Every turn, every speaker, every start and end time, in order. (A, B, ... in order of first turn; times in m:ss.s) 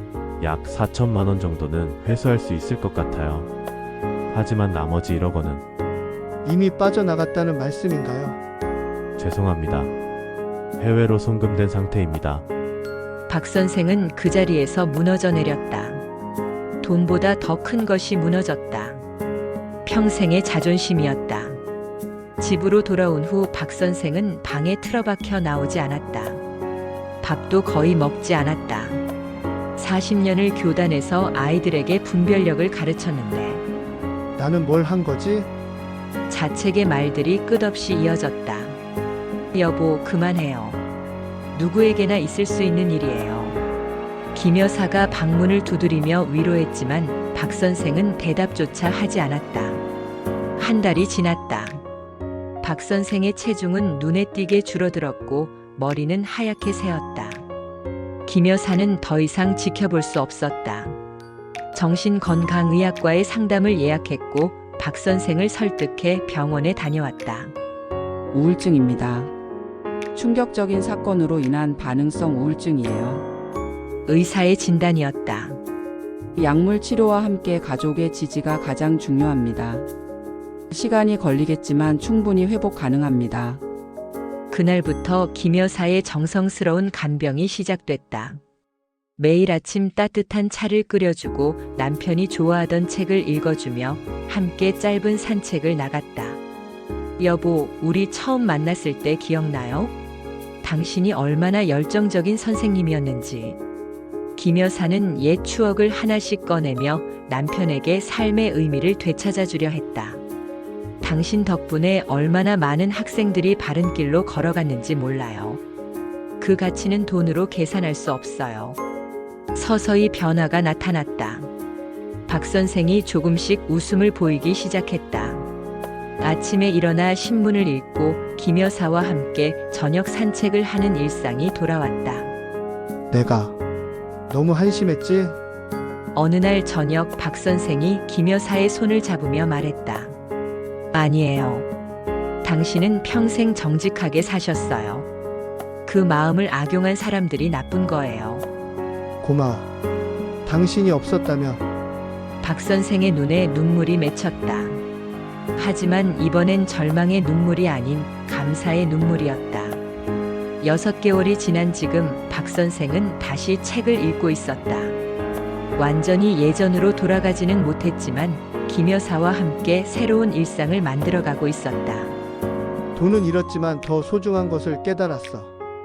0:00.4-0:03.5 A
0:04.3-0:05.6 A
0:06.4-0:08.4 B
0:09.2-0:09.9 A
0:10.8-0:12.4 A
0:13.3-0:16.0 C
0:16.8-0:19.0 C
0:19.8-0:21.6 C
0:22.4-0:26.4 C
0:27.2-0:29.0 C
0:29.8-0:33.6 C
0:34.4-0:35.5 B
0:36.3-0:38.8 C
0:39.5-0:40.8 C
0:41.5-0:43.6 C
0:44.3-0:49.8 C
0:50.6-0:51.8 C
0:52.6-0:57.4 C
0:58.2-1:01.0 C
1:01.7-1:07.5 C
1:08.3-1:09.3 D
1:10.1-1:13.2 D
1:14.1-1:15.6 C
1:16.4-1:19.9 D
1:20.7-1:23.6 D
1:24.5-1:28.4 C
1:29.2-1:36.4 C
1:37.2-1:39.9 C
1:40.6-1:43.6 C
1:44.4-1:50.2 C
1:51.0-1:55.6 C
1:56.4-1:58.8 C
1:59.6-2:01.5 C
2:02.3-2:05.4 C
2:06.2-2:12.3 C
2:13.1-2:13.6 B
2:14.3-2:15.4 B
2:16.1-2:20.2 C
2:20.9-2:21.7 C
2:22.4-2:25.1 C
2:25.9-2:28.4 C
2:29.2-2:29.7 B
2:30.4-2:31.6 B
2:32.4-2:34.8 C
2:35.6-2:39.8 C
2:40.6-2:45.0 C
2:45.8-2:52.2 C
2:52.9-2:55.5 B